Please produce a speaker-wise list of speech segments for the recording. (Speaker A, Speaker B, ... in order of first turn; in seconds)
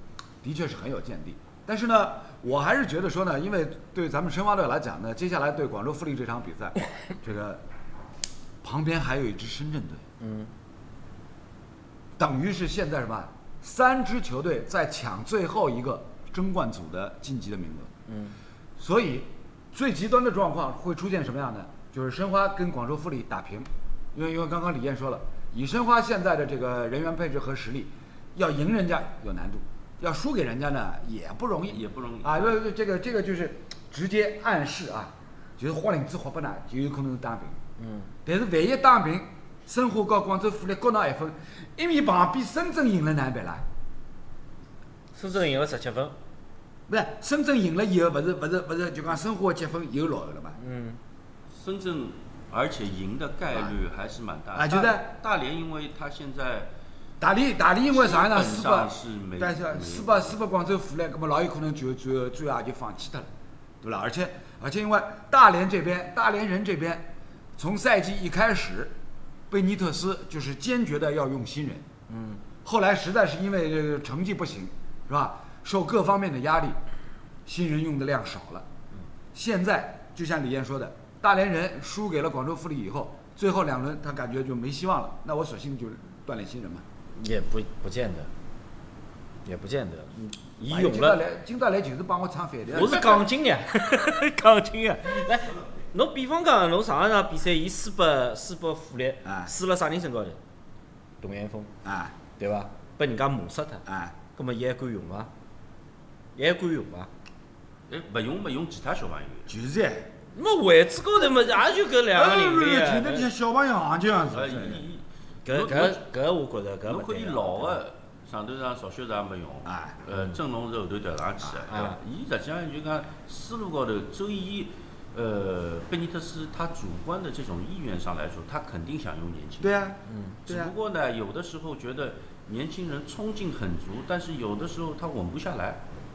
Speaker A: 0.4-7.6, 8.6-10.1, 12.2-17.9, 18.8-37.6, 38.2-43.6, 46.9-50.6, 54.5-55.1, 57.2-63.3, 63.8-68.9, 69.5-71.8, 72.6-76.8, 77.5-78.6, 79.3-86.8, 90.6-93.2, 99.2-99.5, 101.8-102.1, 103.8-104.1, 109.5-110.1, 112.1-114.8, 119.6-120.0, 129.6-130.7
Speaker B: 10.2-10.5, 18.1-18.4, 37.8-38.1, 45.1-46.1, 50.6-51.0, 72.1-72.4, 87.2-88.3, 89.4-91.2, 92.7-100.4, 101.2-101.7, 102.4-103.8, 104.3-105.3, 106.3-107.1, 110.3-113.3, 115.5-117.8, 121.7-122.0, 130.1-130.4
Speaker C: 31.7-32.6, 51.5-56.7, 57.9-60.4, 107.9-109.5, 114.3-116.0, 116.8-129.8, 130.4-135.8